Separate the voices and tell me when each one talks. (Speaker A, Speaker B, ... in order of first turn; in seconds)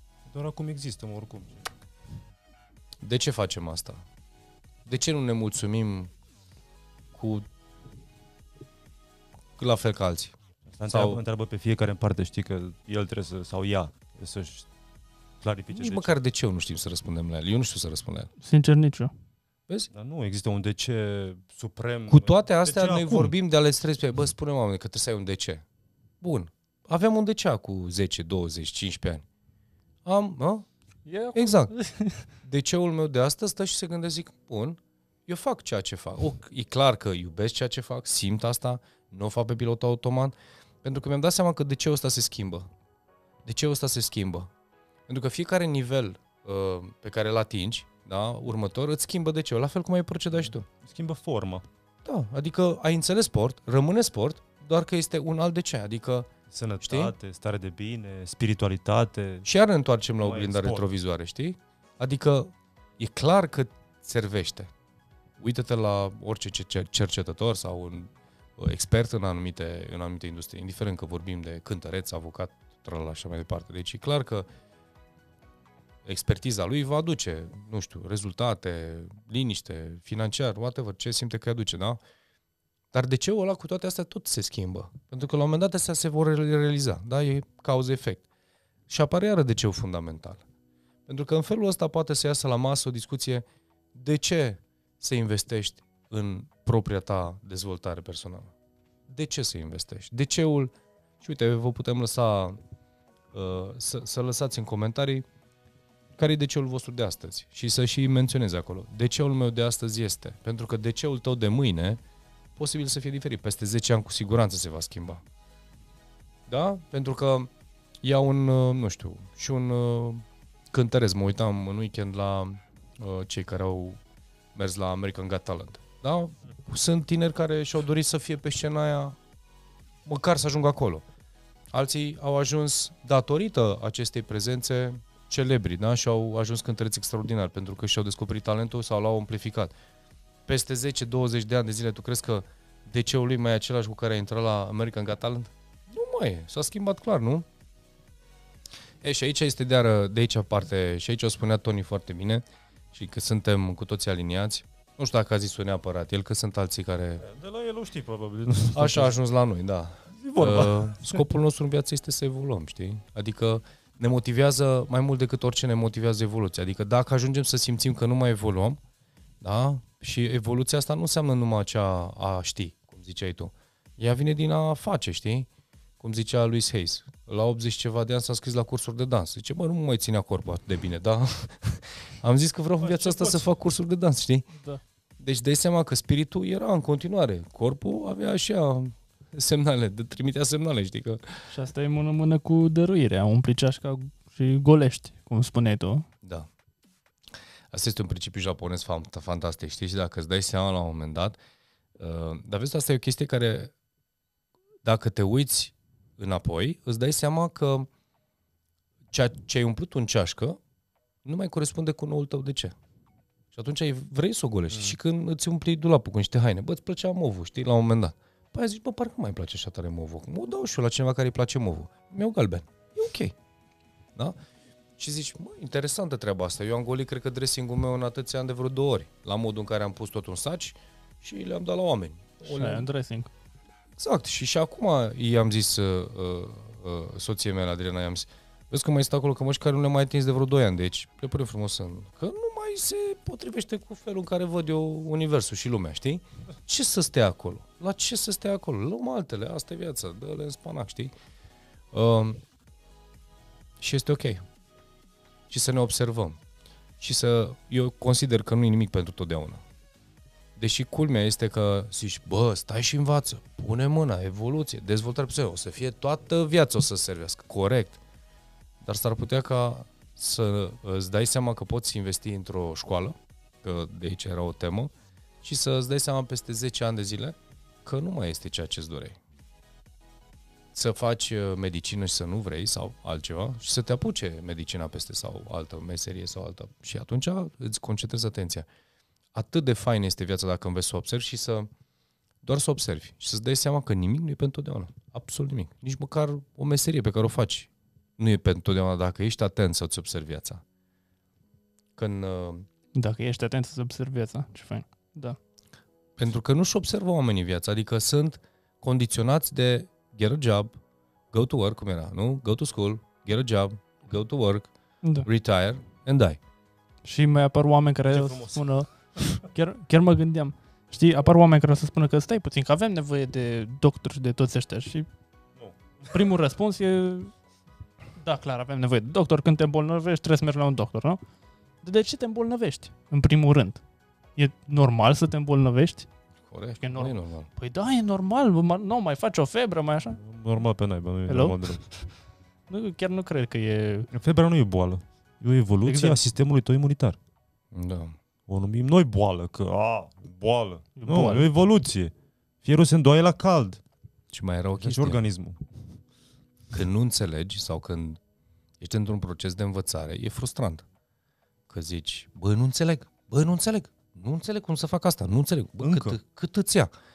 Speaker A: 0.3-1.7, 10.8-14.7, 15.4-16.1, 19.9-23.3, 50.4-51.6, 56.5-59.5, 60.2-60.9, 157.2-159.2, 160.2-161.2, 182.8-183.4, 214.7-215.0, 318.1-318.7, 325.6-326.2, 340.2-341.8, 344.1-347.2, 348.5-353.8, 354.8-355.6, 365.8-366.2
Speaker B: 3.0-4.0, 4.9-6.1, 7.1-7.5, 9.6-10.3, 10.9-11.2, 15.7-18.3, 22.1-25.6, 26.2-29.2, 30.0-30.7, 31.3-31.7, 32.4-42.7, 43.5-44.5, 45.1-50.6, 52.0-56.3, 56.8-57.1, 59.4-64.7, 65.4-74.5, 76.0-82.0, 82.9-88.2, 88.9-90.4, 91.1-98.5, 99.1-102.6, 103.3-105.2, 106.2-112.0, 112.5-115.2, 116.5-117.5, 118.0-124.0, 124.5-129.2, 130.0-131.0, 131.7-139.7, 140.5-147.4, 149.0-157.2, 158.7-168.8, 169.4-175.5, 176.0-184.4, 185.2-191.4, 196.2-196.5, 197.7-201.4, 202.0-203.7, 204.8-207.9, 209.1-210.6, 211.2-212.7, 213.5-223.3, 225.0-232.9, 234.0-251.1, 251.9-252.4, 253.8-254.4, 255.5-256.4, 257.0-259.6, 260.6-268.0, 268.8-274.9, 275.4-279.2, 280.7-288.7, 289.3-291.7, 292.4-300.6, 302.0-302.7, 306.2-310.8, 311.3-316.4, 336.5-337.5, 347.7-348.1, 354.3-355.2, 356.7-358.2, 358.8-360.9, 361.7-366.9
Speaker C: 18.4-19.1, 31.1-32.2, 191.5-196.0, 232.5-233.3, 302.9-305.4, 317.0-325.1, 326.1-327.3, 328.2-331.2, 331.8-333.8, 334.4-336.1, 336.8-340.2, 341.3-342.1, 342.7-344.1, 345.8-346.2, 351.0-351.5